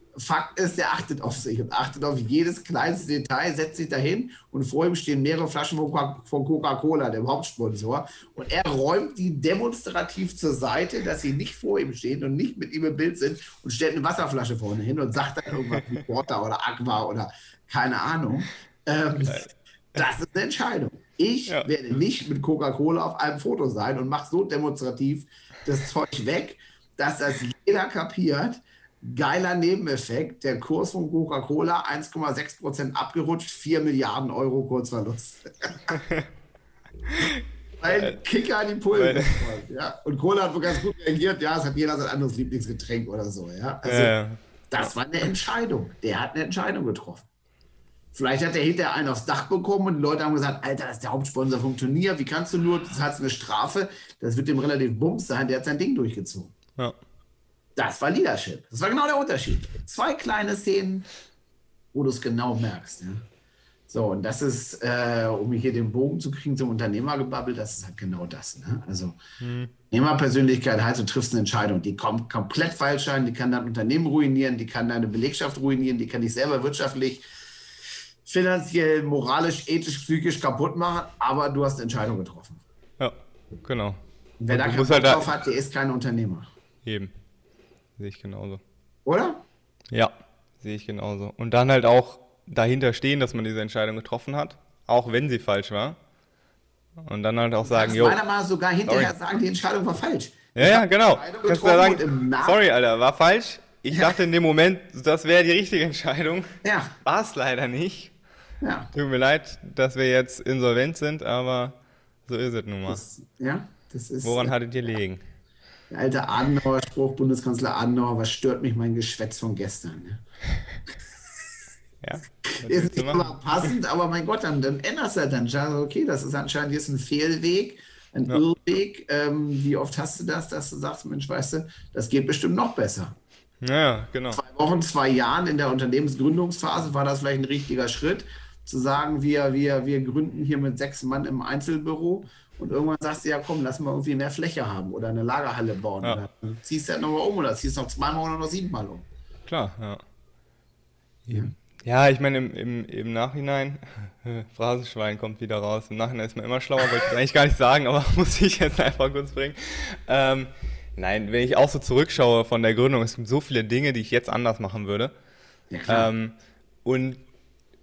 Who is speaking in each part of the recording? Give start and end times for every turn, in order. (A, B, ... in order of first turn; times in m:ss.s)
0:00.2-0:35.9 A
0:15.7-0:16.0 B
0:19.2-0:19.5 B
0:35.9-0:36.3 B
0:37.1-0:38.2 B
0:37.8-0:44.1 A
0:39.0-0:39.4 B
0:43.8-0:44.9 B
0:44.7-0:47.3 A
0:48.1-0:56.5 A
0:57.8-1:01.1 A
1:01.9-1:03.2 A
1:03.9-1:09.2 A
1:09.4-1:09.7 B
1:09.9-1:17.2 A
1:18.3-1:22.6 A
1:23.0-1:25.3 B
1:24.4-1:26.5 A
1:26.8-1:27.1 B
1:28.0-1:28.6 B
1:29.0-1:29.4 A
1:29.9-1:36.0 B
1:37.1-1:38.2 B
1:37.6-1:42.6 A
1:38.9-1:39.1 B
1:40.6-1:48.1 B
1:43.9-1:44.2 A
1:46.6-1:46.9 A
1:48.6-1:48.9 A
1:48.9-1:53.0 B
1:52.9-1:54.5 A
1:54.2-1:55.2 B
1:55.9-2:00.2 A
2:02.0-2:03.7 B
2:02.4-2:13.2 A
2:13.6-2:14.4 B
2:14.3-2:29.1 A
2:29.5-2:30.0 B
2:31.3-2:45.1 B
2:45.7-2:46.1 A
2:45.9-2:47.2 B